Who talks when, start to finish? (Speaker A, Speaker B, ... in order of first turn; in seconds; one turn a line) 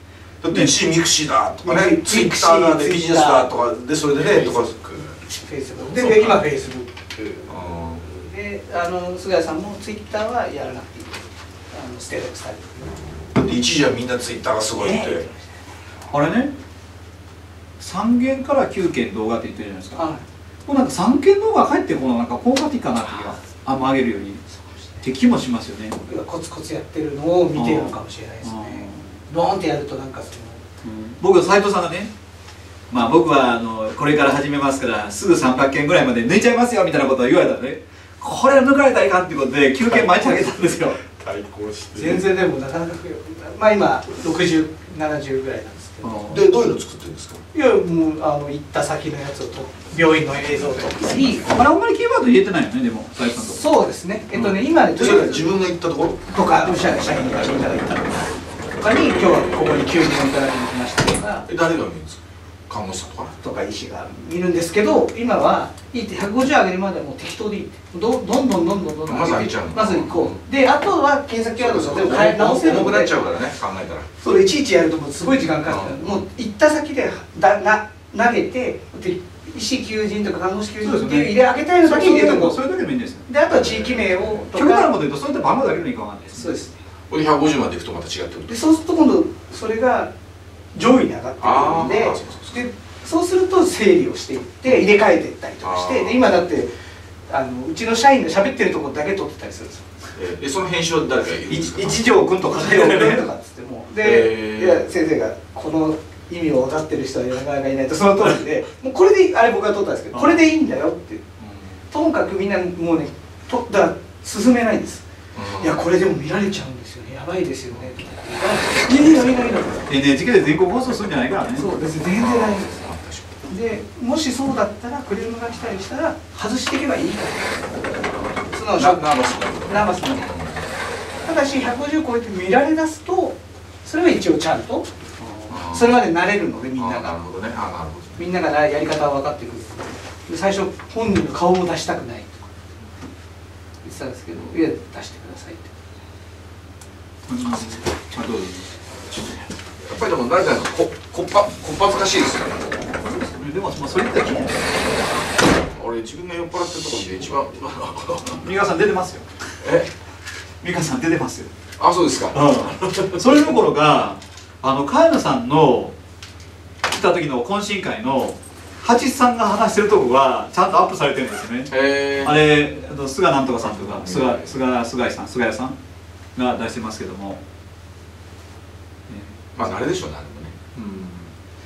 Speaker A: 0.4-5.2
Speaker B: 1.6-3.5
Speaker B: 4.2-4.6
Speaker B: 5.2-6.9
Speaker A: 5.9-6.4
Speaker A: 7.2-8.1
Speaker B: 8.1-12.9
Speaker A: 13.3-15.3
Speaker B: 14.8-15.4
Speaker C: 16.1-16.5
Speaker C: 17.8-20.0
Speaker B: 19.9-20.2
Speaker C: 20.6-24.4
Speaker C: 25.0-26.0
Speaker B: 26.1-30.6
Speaker C: 27.5-29.1
Speaker C: 30.8-32.1
Speaker C: 32.9-41.0
Speaker B: 40.0-40.5
Speaker A: 41.1-42.2
Speaker B: 41.9-46.4
Speaker C: 46.0-46.4
Speaker A: 46.3-47.4
Speaker B: 47.5-51.6
Speaker A: 50.6-51.4
Speaker C: 51.1-53.6
Speaker B: 53.4-55.6
Speaker A: 54.9-56.3
Speaker B: 56.3-61.5
Speaker A: 58.9-59.9
Speaker A: 61.5-63.4
Speaker B: 63.4-73.2
Speaker A: 69.0-70.4
Speaker A: 71.6-74.1
Speaker B: 74.2-82.6
Speaker A: 75.6-76.2
Speaker C: 80.8-83.2
Speaker B: 83.2-84.9
Speaker A: 83.5-84.4
Speaker C: 84.5-86.5
Speaker B: 86.3-86.8
Speaker A: 87.1-88.6
Speaker B: 88.5-90.1
Speaker B: 90.7-96.7
Speaker A: 91.4-92.6
Speaker A: 95.6-96.3
Speaker B: 97.3-99.8
Speaker A: 100.1-102.0
Speaker C: 101.5-103.2
Speaker B: 102.4-111.2
Speaker A: 104.0-104.8
Speaker C: 110.1-110.4
Speaker A: 111.4-111.7
Speaker B: 111.9-115.0
Speaker A: 115.3-115.8
Speaker B: 115.6-119.9
Speaker C: 119.9-121.7
Speaker B: 121.5-122.9
Speaker A: 122.2-123.3
Speaker B: 123.5-127.7
Speaker B: 128.5-130.3
Speaker A: 128.7-130.7
Speaker B: 131.2-134.9
Speaker C: 135.2-135.5
Speaker A: 135.5-136.0
Speaker B: 135.6-137.1
Speaker A: 136.8-138.2
Speaker B: 138.2-142.5
Speaker B: 143.8-145.7
Speaker C: 147.3-148.7
Speaker A: 149.8-152.7
Speaker C: 153.0-154.8
Speaker A: 155.7-158.5
Speaker C: 158.3-159.2
Speaker A: 159.6-159.9
Speaker C: 160.6-161.5
Speaker A: 161.8-163.5
Speaker C: 162.3-165.9
Speaker C: 166.9-175.8
Speaker A: 171.7-172.5
Speaker A: 173.6-174.6
Speaker C: 176.3-177.4
Speaker C: 179.1-179.4
Speaker A: 179.5-181.3